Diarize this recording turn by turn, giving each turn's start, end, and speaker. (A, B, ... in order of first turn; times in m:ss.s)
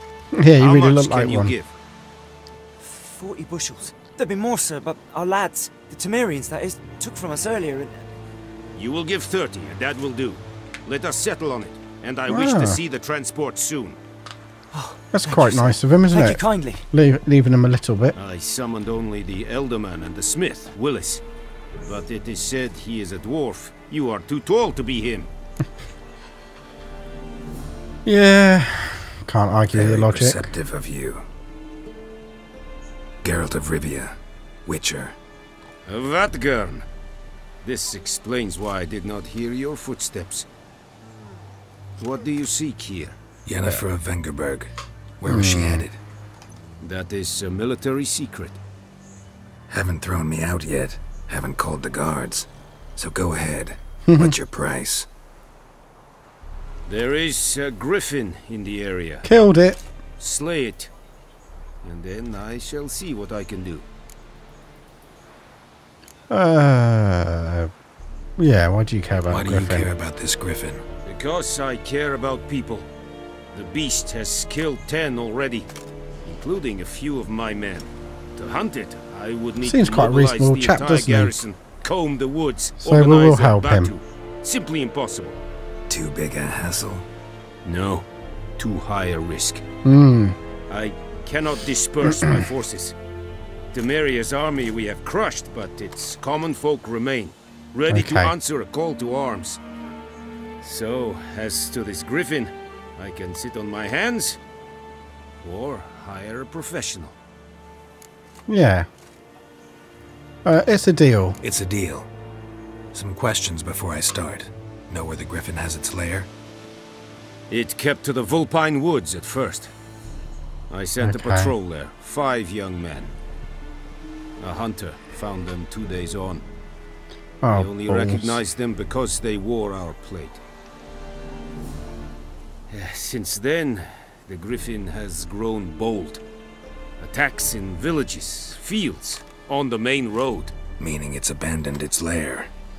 0:00.3-0:01.6 A
0:00.6-0:01.7 B
0:02.8-0:08.1 C
0:08.8-0:14.0 B
0:12.3-0:12.8 A
0:14.7-0:16.8 C
0:15.1-0:18.2 A
0:18.2-0:21.2 B
0:21.8-0:25.3 B
0:28.0-0:30.5 A
0:29.7-0:31.3 D
0:33.2-0:35.2 D
0:35.9-0:36.9 B
0:37.6-0:40.5 B
0:42.0-0:43.2 B
0:43.5-0:46.0 D
0:45.3-0:45.9 A
0:46.8-0:48.6 B
0:49.7-0:55.1 D
0:54.1-0:54.3 A
0:56.9-0:59.3 B
0:59.2-0:59.8 A
1:00.2-1:00.9 B
1:01.8-1:03.8 B
1:06.3-1:07.7 A
1:08.4-1:09.9 A
1:09.3-1:10.8 D
1:11.0-1:12.9 B
1:13.5-1:15.7 B
1:16.2-1:25.4 B
1:19.6-1:21.4 A
1:22.8-1:23.9 A
1:25.9-1:27.1 D
1:27.6-1:28.1 B
1:28.6-1:29.6 B
1:29.8-1:30.4 A
1:30.7-1:33.0 B
1:32.1-1:32.4 A
1:33.7-1:39.6 B
1:37.9-1:38.4 A
1:40.6-1:44.4 B
1:45.4-1:47.2 B
1:48.5-1:48.9 A
1:50.4-1:51.4 A
1:51.4-1:52.1 D
1:52.9-1:56.3 D
1:57.5-1:59.7 B
2:00.7-2:03.1 B
2:01.0-2:01.6 A
2:04.4-2:06.4 B
2:07.4-2:08.4 A
2:07.5-2:10.4 B
2:12.7-2:16.2 B
2:17.0-2:20.5 B
2:20.8-2:22.5 D